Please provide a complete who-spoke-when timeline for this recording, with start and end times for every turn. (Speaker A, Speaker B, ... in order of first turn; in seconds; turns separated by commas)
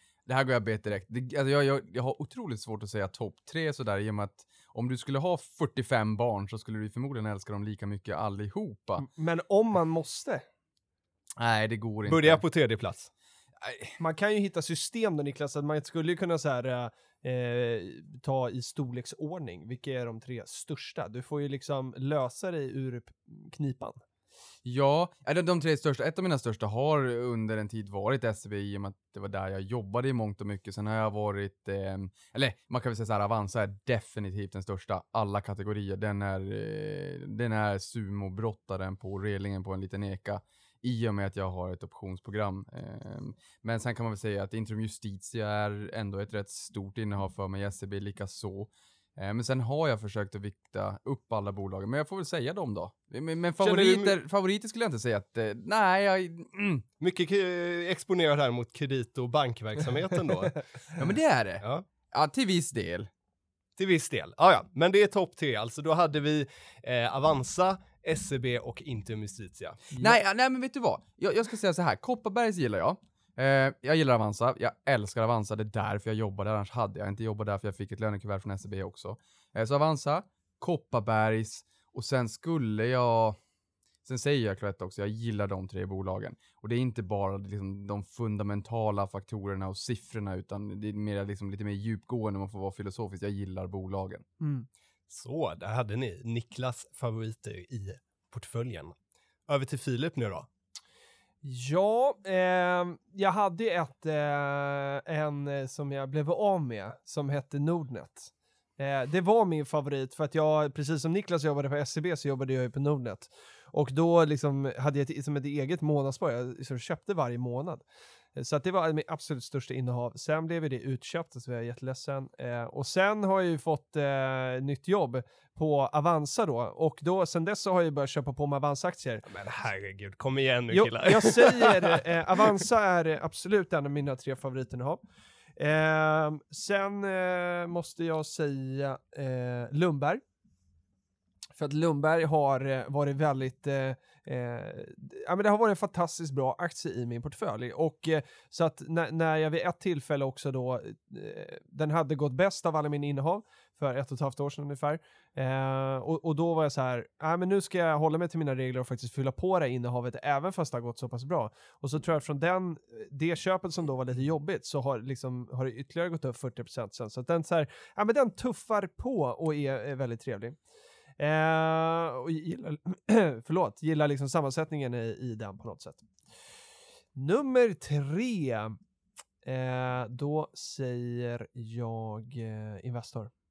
Speaker A: 0.3-9.1, Speaker B: 9.0-10.4, Speaker A: 11.4-12.4, Speaker C: 12.1-13.1, Speaker A: 13.6-14.0, Speaker B: 14.0-24.0, Speaker A: 24.6-56.9, Speaker C: 53.6-54.2, Speaker C: 57.0-60.7, Speaker A: 61.0-63.1, Speaker C: 63.8-69.9, Speaker B: 69.9-70.2, Speaker A: 70.0-83.4, Speaker A: 84.0-94.2, Speaker B: 94.4-94.7, Speaker C: 95.1-99.0, Speaker C: 99.5-100.5, Speaker B: 101.4-117.8, Speaker B: 118.3-129.2, Speaker C: 129.2-132.6, Speaker B: 130.7-135.0, Speaker B: 135.6-140.2, Speaker B: 141.6-170.6, Speaker B: 171.2-176.1, Speaker B: 177.2-178.8, Speaker B: 179.4-183.3